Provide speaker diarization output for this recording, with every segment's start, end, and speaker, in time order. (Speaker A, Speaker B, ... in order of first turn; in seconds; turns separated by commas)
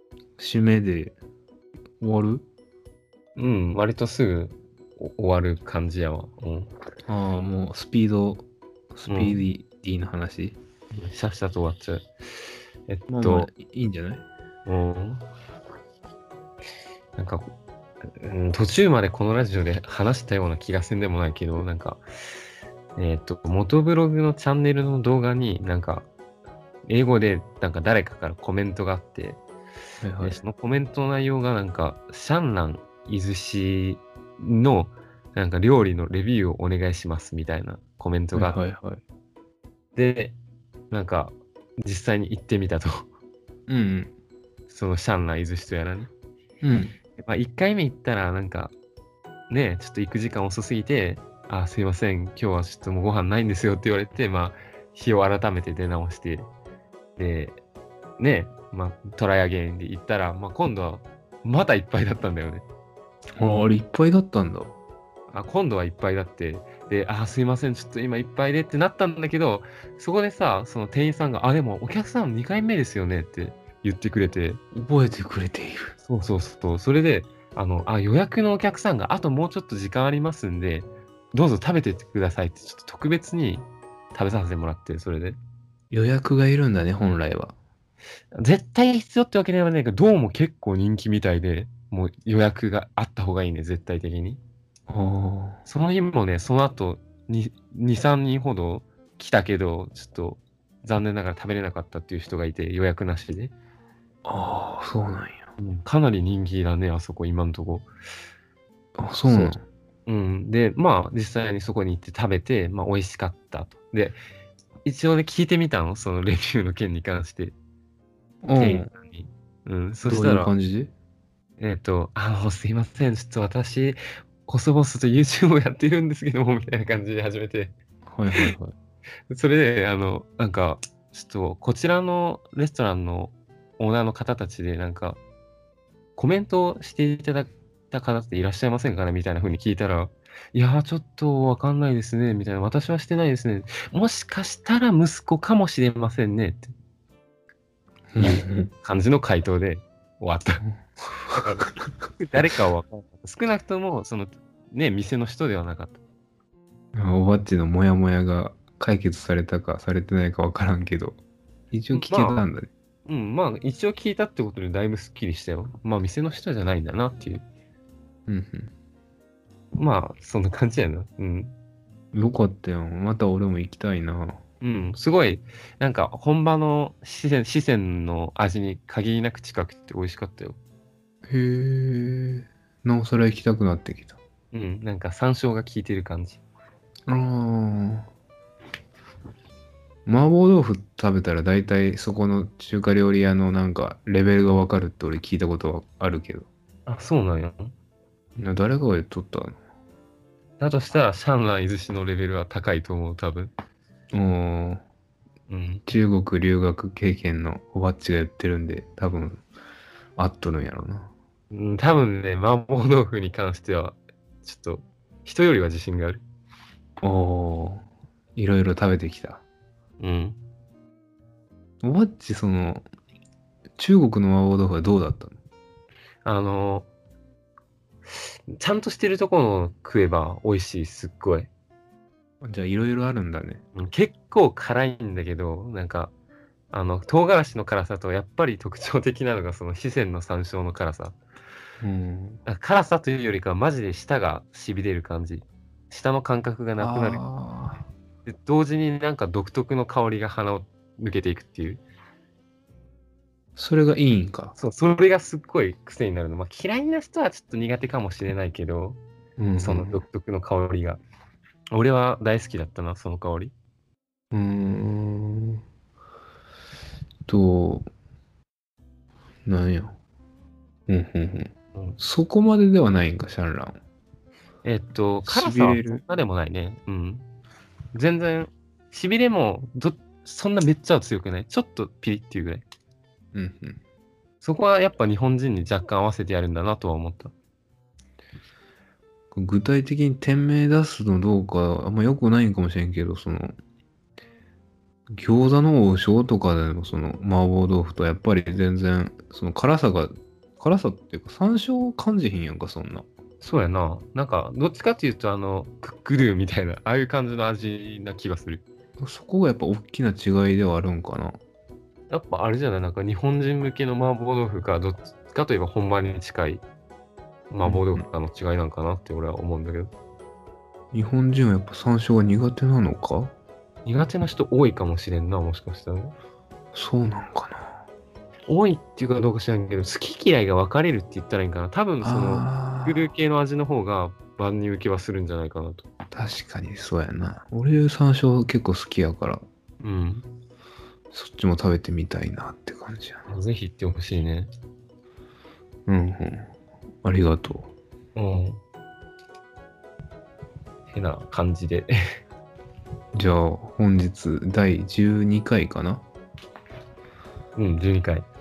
Speaker A: 0.4-1.1, Speaker A: 2.0-2.4, Speaker B: 3.4-6.7, Speaker A: 7.1-10.6, Speaker B: 9.1-9.4, Speaker B: 10.9-12.1, Speaker B: 12.9-13.5, Speaker A: 13.1-14.2, Speaker B: 14.7-15.2, Speaker B: 17.2-17.5, Speaker B: 18.1-22.0, Speaker B: 22.9-26.1, Speaker B: 26.9-29.4, Speaker A: 30.0-30.4, Speaker B: 30.2-38.6, Speaker A: 38.3-39.0, Speaker B: 40.0-40.3, Speaker B: 40.9-43.1, Speaker A: 43.7-44.1, Speaker B: 44.7-46.1, Speaker A: 46.6-46.9, Speaker B: 47.2-48.7, Speaker B: 49.5-56.5, Speaker B: 57.2-57.6, Speaker B: 58.2-62.6, Speaker A: 63.4-64.7, Speaker B: 65.3-74.6, Speaker A: 74.7-75.9, Speaker B: 76.0-85.4, Speaker A: 85.9-87.5, Speaker B: 88.3-94.4, Speaker A: 94.9-95.6, Speaker B: 95.7-103.5, Speaker A: 104.2-105.4, Speaker B: 105.6-107.8, Speaker A: 109.0-109.6, Speaker B: 109.2-109.5, Speaker B: 110.0-114.2, Speaker B: 114.8-117.5, Speaker A: 118.4-118.9, Speaker B: 118.5-120.5, Speaker A: 120.0-120.9, Speaker B: 121.6-127.7, Speaker A: 128.1-128.7, Speaker B: 129.3-135.2, Speaker B: 136.2-146.7, Speaker A: 148.1-148.7, Speaker B: 148.2-150.6, Speaker A: 151.3-151.7, Speaker B: 151.3-156.0, Speaker A: 156.9-161.2, Speaker A: 161.7-162.7, Speaker B: 161.9-162.5, Speaker B: 163.1-167.4, Speaker A: 168.3-168.7, Speaker B: 169.8-171.5, Speaker A: 172.1-174.4, Speaker B: 174.6-180.6, Speaker A: 181.3-184.2, Speaker B: 184.5-186.4, Speaker A: 187.1-188.1, Speaker A: 190.1-196.5, Speaker B: 196.8-197.7, Speaker A: 198.4-199.6, Speaker B: 200.6-203.5, Speaker A: 204.1-204.8, Speaker B: 205.5-205.8, Speaker A: 205.9-209.4, Speaker A: 210.2-211.1, Speaker B: 211.5-216.2, Speaker A: 217.0-217.8, Speaker A: 218.3-219.4, Speaker B: 220.0-220.4, Speaker A: 221.8-222.8, Speaker A: 223.8-225.4, Speaker B: 226.2-226.9, Speaker B: 228.5-231.5, Speaker A: 232.4-233.6, Speaker B: 233.7-236.1, Speaker B: 236.7-241.1, Speaker A: 241.8-242.4, Speaker B: 242.4-247.2, Speaker A: 246.8-247.8, Speaker B: 248.2-251.8, Speaker A: 253.6-254.5, Speaker B: 254.6-259.0, Speaker A: 259.4-260.0, Speaker B: 259.6-261.0, Speaker B: 261.7-263.5, Speaker A: 264.3-265.6, Speaker A: 267.3-267.9, Speaker A: 269.4-269.9, Speaker A: 270.9-273.8, Speaker B: 274.6-277.2, Speaker A: 275.2-276.0, Speaker B: 277.9-282.6, Speaker A: 283.3-283.8, Speaker B: 284.4-287.3, Speaker A: 289.3-293.5, Speaker A: 295.1-303.1, Speaker B: 303.4-308.6, Speaker A: 309.0-311.4, Speaker B: 312.1-316.6, Speaker B: 317.5-319.9, Speaker A: 317.6-318.0, Speaker A: 320.9-323.3, Speaker B: 323.8-326.1, Speaker A: 326.7-327.7, Speaker B: 328.5-335.8, Speaker A: 332.0-333.1, Speaker A: 336.1-339.4, Speaker B: 339.8-340.2, Speaker A: 341.1-343.2, Speaker B: 343.3-344.5, Speaker A: 345.9-346.5, Speaker A: 347.0-347.7, Speaker B: 348.1-348.6, Speaker B: 350.9-351.9, Speaker A: 353.1-356.0, Speaker B: 357.6-358.3